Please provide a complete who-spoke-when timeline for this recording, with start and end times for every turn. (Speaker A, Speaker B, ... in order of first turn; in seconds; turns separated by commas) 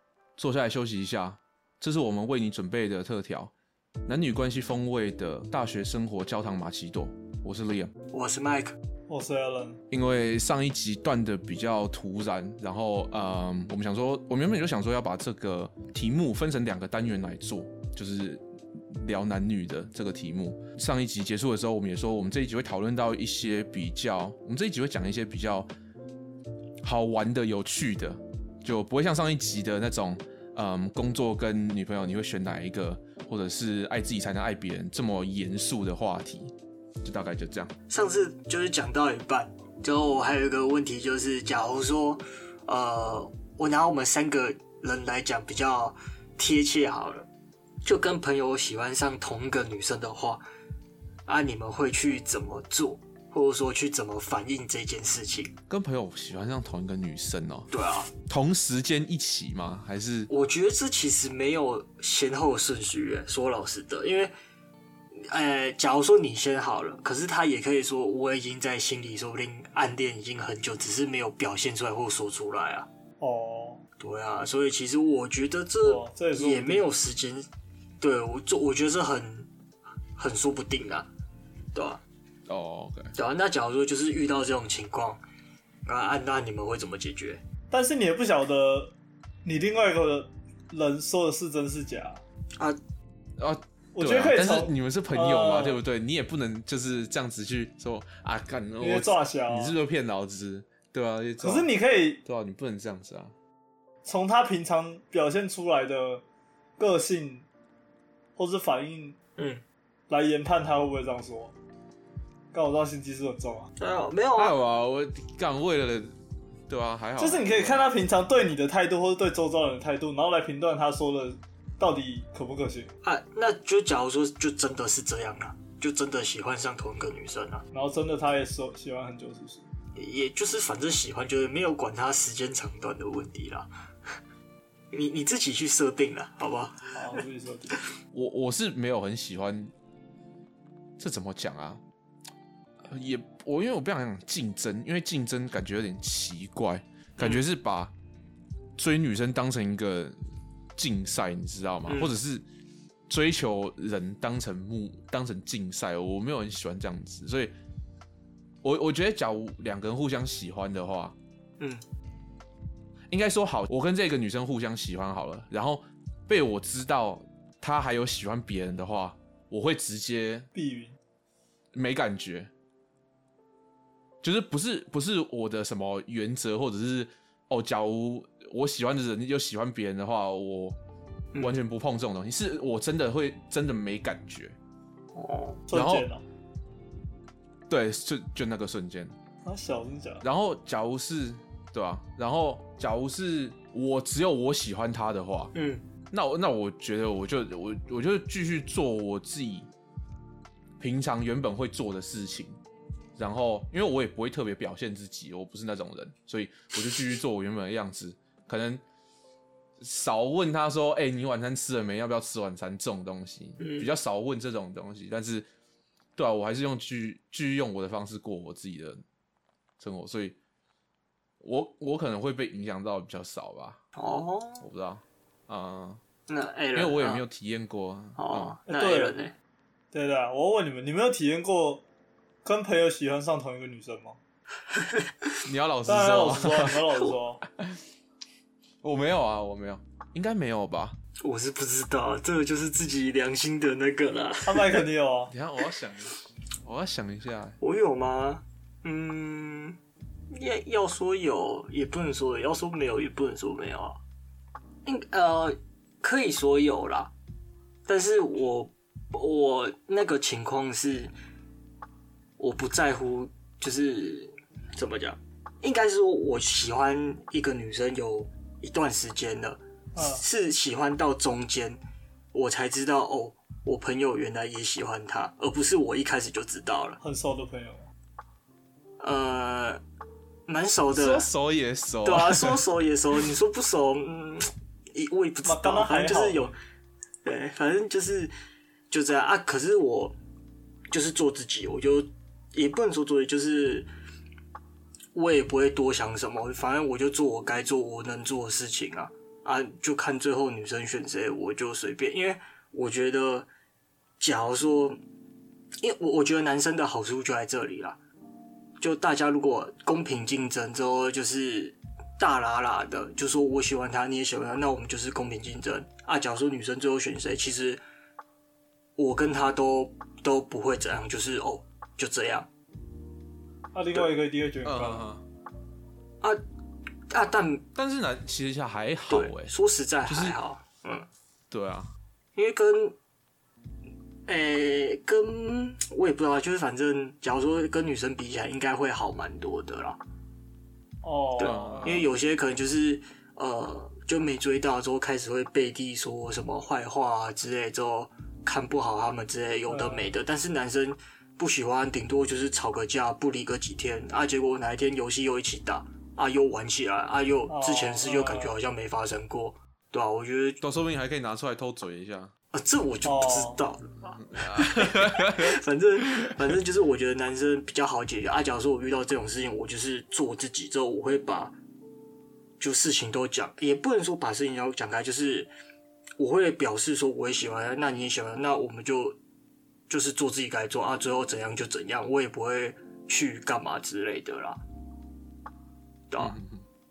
Speaker A: 0.4-3.5, Speaker A: 4.0-7.9, Speaker B: 8.1-8.8, Speaker C: 9.1-9.8, Speaker A: 9.9-25.7, Speaker A: 26.8-37.7, Speaker B: 37.9-47.3, Speaker B: 47.8-50.4, Speaker B: 51.2-55.5, Speaker A: 55.7-57.7, Speaker B: 57.7-58.1, Speaker A: 58.2-60.3, Speaker B: 60.3-64.3, Speaker B: 65.1-72.9, Speaker C: 73.2-73.8, Speaker B: 74.0-77.5, Speaker C: 75.8-76.9, Speaker B: 78.0-79.5, Speaker B: 80.2-81.1, Speaker B: 81.7-82.0, Speaker A: 82.5-83.1, Speaker B: 83.1-85.2, Speaker B: 85.8-87.4, Speaker C: 87.7-88.9, Speaker C: 89.4-92.2, Speaker A: 93.4-101.7, Speaker C: 93.9-95.8, Speaker C: 98.8-99.7, Speaker C: 101.4-102.2, Speaker A: 102.2-103.3, Speaker C: 104.0-106.2, Speaker C: 106.8-107.5, Speaker C: 108.4-109.2, Speaker B: 109.4-109.6, Speaker C: 110.1-111.5, Speaker C: 112.5-113.7, Speaker B: 113.8-114.5, Speaker A: 114.4-116.1, Speaker A: 116.7-117.9, Speaker C: 117.2-122.9, Speaker B: 123.0-127.6, Speaker C: 127.7-129.7, Speaker B: 129.9-134.2, Speaker B: 134.9-137.2, Speaker C: 136.9-137.8, Speaker A: 138.1-139.7, Speaker A: 141.0-141.8, Speaker A: 142.9-147.9, Speaker A: 148.8-150.2, Speaker A: 150.8-152.4, Speaker B: 151.9-152.1, Speaker A: 153.1-157.5, Speaker A: 158.6-161.2, Speaker B: 161.6-161.8, Speaker A: 163.1-170.5, Speaker C: 170.5-170.9, Speaker A: 171.7-172.5, Speaker A: 174.2-180.8, Speaker A: 181.4-184.6, Speaker B: 185.1-185.6, Speaker C: 185.7-186.2, Speaker A: 185.7-186.1, Speaker A: 187.7-189.1, Speaker C: 189.4-190.2, Speaker A: 190.2-195.5, Speaker B: 195.5-195.8, Speaker A: 196.1-199.7, Speaker A: 200.8-202.6, Speaker A: 203.2-208.8, Speaker A: 209.8-215.5, Speaker B: 213.6-213.9, Speaker A: 216.2-219.0, Speaker A: 219.8-220.3, Speaker A: 221.4-223.8, Speaker B: 223.9-224.6, Speaker A: 224.6-226.0, Speaker B: 226.3-227.2, Speaker A: 226.7-228.6, Speaker B: 228.2-229.3, Speaker C: 228.7-229.2, Speaker C: 229.9-231.8, Speaker C: 232.4-234.2, Speaker B: 234.7-235.3, Speaker A: 235.4-236.8, Speaker C: 235.8-237.4, Speaker A: 238.8-241.0, Speaker B: 241.2-244.8, Speaker C: 244.4-245.3, Speaker A: 245.3-247.6, Speaker B: 247.6-249.8, Speaker B: 250.3-254.0, Speaker B: 254.8-257.1, Speaker B: 257.9-261.1, Speaker B: 262.4-271.8, Speaker C: 269.9-270.2, Speaker B: 272.3-277.0, Speaker C: 277.0-277.9, Speaker B: 279.0-279.8, Speaker B: 280.5-281.3, Speaker A: 280.9-282.6, Speaker B: 282.0-286.6, Speaker C: 285.4-286.5, Speaker B: 287.2-288.3, Speaker B: 288.9-290.2, Speaker B: 290.9-293.9, Speaker B: 295.1-303.5, Speaker B: 304.2-305.0, Speaker B: 305.8-308.0, Speaker B: 308.8-317.8, Speaker B: 318.9-322.5, Speaker C: 323.7-325.1, Speaker A: 324.6-325.2, Speaker B: 327.1-327.6, Speaker A: 327.7-329.5, Speaker B: 329.1-331.1, Speaker A: 330.1-330.4, Speaker A: 331.5-331.9, Speaker B: 332.3-333.0, Speaker B: 334.2-340.0, Speaker C: 341.0-341.9, Speaker B: 341.4-360.6, Speaker A: 341.4-342.1, Speaker C: 349.7-350.1, Speaker C: 357.5-358.5, Speaker A: 360.6-362.3, Speaker B: 362.5-371.6, Speaker C: 363.0-363.6, Speaker A: 364.2-366.4, Speaker B: 372.6-375.5, Speaker B: 376.2-379.2, Speaker B: 379.9-384.6, Speaker B: 386.1-386.4, Speaker A: 386.2-386.6